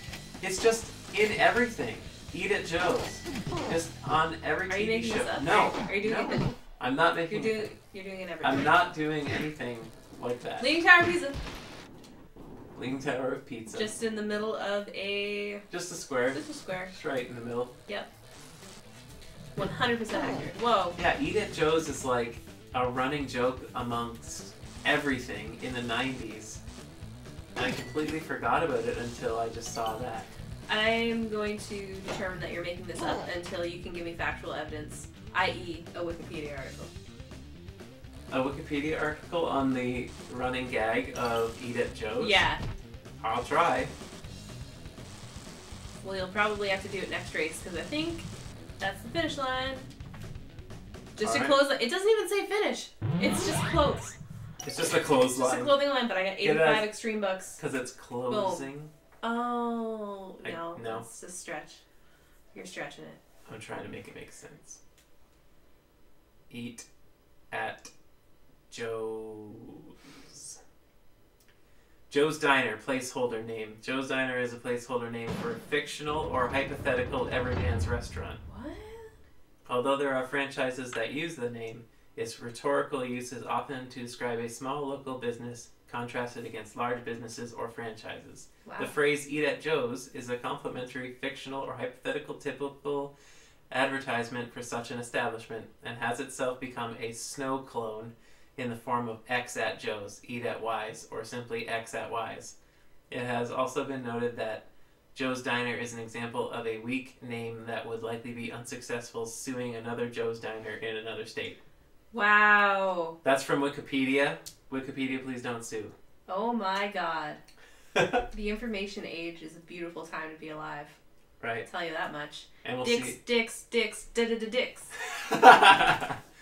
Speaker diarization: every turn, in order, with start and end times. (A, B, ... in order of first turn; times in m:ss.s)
0:00.4-0:07.7 A
0:04.7-0:06.6 B
0:07.3-0:08.8 B
0:08.4-0:10.7 A
0:10.6-0:11.4 B
0:12.7-0:13.9 A
0:13.7-0:15.6 B
0:15.7-0:17.7 A
0:16.3-0:16.9 B
0:19.6-0:21.0 B
0:21.0-0:26.6 A
0:27.6-0:30.3 A
0:30.7-0:36.9 B
0:38.3-0:42.4 A
0:42.2-0:42.6 B
0:43.2-0:43.9 A
0:46.0-0:48.2 B
0:48.8-0:49.8 B
0:51.2-0:54.2 B
0:51.2-0:51.6 A
0:54.6-0:55.8 A
0:55.3-0:57.6 B
0:56.4-0:56.9 A
0:57.6-0:58.9 A
0:58.3-0:58.7 B
0:59.2-1:01.8 B
1:00.4-1:01.0 A
1:02.5-1:03.2 B
1:03.4-1:04.8 A
1:06.5-1:06.9 A
1:07.5-1:07.9 A
1:08.7-1:10.6 A
1:12.1-1:18.4 A
1:18.5-1:19.1 B
1:19.6-1:33.1 A
1:28.6-1:28.9 B
1:33.7-1:42.5 A
1:43.1-1:51.6 A
1:52.1-1:53.2 B
1:53.2-1:55.9 A
1:56.3-1:57.4 B
1:57.9-1:58.2 A
1:58.3-2:01.0 B
2:01.4-2:01.6 A
2:01.6-2:04.9 B
2:02.6-2:03.2 A
2:05.0-2:06.2 A